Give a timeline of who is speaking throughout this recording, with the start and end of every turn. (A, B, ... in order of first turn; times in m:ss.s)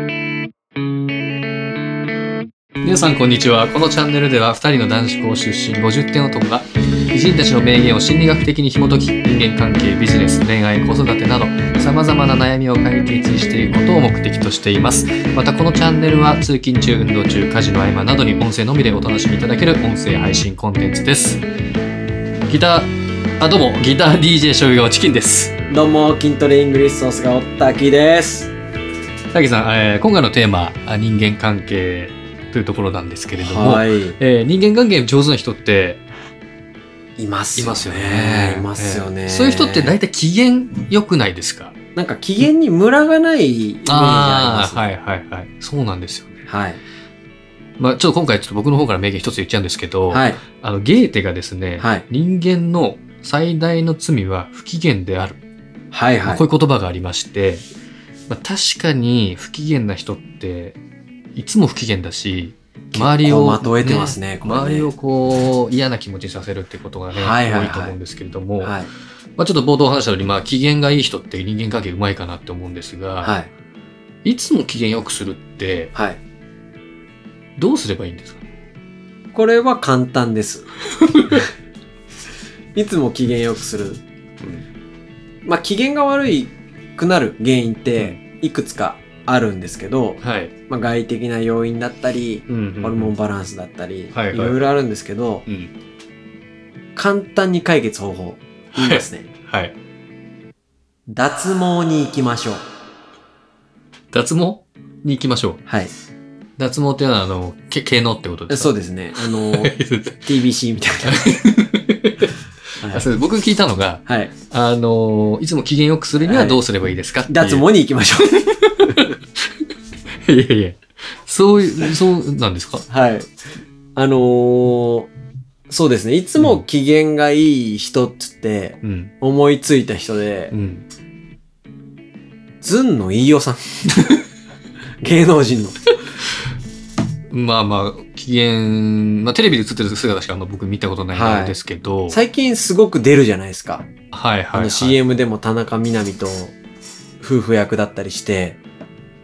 0:02.8-0:21.4 A
0:22.5-0:25.5 A
0:25.7-0:28.5 B
0:29.3-0:36.0 A
0:33.3-0:34.2 B
0:37.2-0:39.9 B
0:37.6-0:41.8 A
0:41.9-0:44.9 B
0:43.9-0:46.4 A
0:46.5-0:46.8 B
0:47.8-0:55.4 A
0:50.1-0:50.4 B
0:51.8-0:52.0 B
0:55.9-0:56.4 B
0:56.2-0:57.6 A
0:58.3-1:00.8 A
1:01.3-1:08.8 A
1:02.9-1:04.9 B
1:07.1-1:08.0 B
1:08.6-1:08.9 B
1:09.4-1:13.3 A
1:13.2-1:13.5 B
1:14.2-1:15.9 A
1:15.9-1:16.2 B
1:17.6-1:18.4 A
1:19.3-1:20.7 B
1:21.0-1:21.4 A
1:22.8-1:24.0 B
1:25.4-1:35.4 B
1:30.2-1:30.5 A
1:32.5-1:33.1 A
1:34.1-1:34.6 A
1:35.5-1:35.7 A
1:37.0-1:39.3 B
1:38.7-1:39.8 A
1:41.1-1:42.6 B
1:44.1-1:45.6 A
1:45.7-1:45.9 B
1:46.6-1:50.3 A
1:48.5-1:49.7 B
1:50.3-1:51.3 B
1:51.1-1:52.3 A
1:52.8-1:53.1 B
1:52.9-1:57.6 A
1:54.1-1:54.3 B
1:56.2-1:56.6 B
1:57.3-1:58.4 B
1:58.4-1:59.2 A
2:00.3-2:02.9 A
2:02.9-2:03.3 B
2:04.0-2:05.1 B
2:05.7-2:10.5 B
2:08.8-2:09.1 A
2:10.5-2:10.8 A
2:12.6-2:13.9 B
2:15.0-2:15.8 B
2:17.3-2:22.2 A
2:21.1-2:21.6 B
2:22.1-2:23.9 B
2:24.1-2:25.0 A
2:24.5-2:26.6 B
2:27.2-2:28.6 B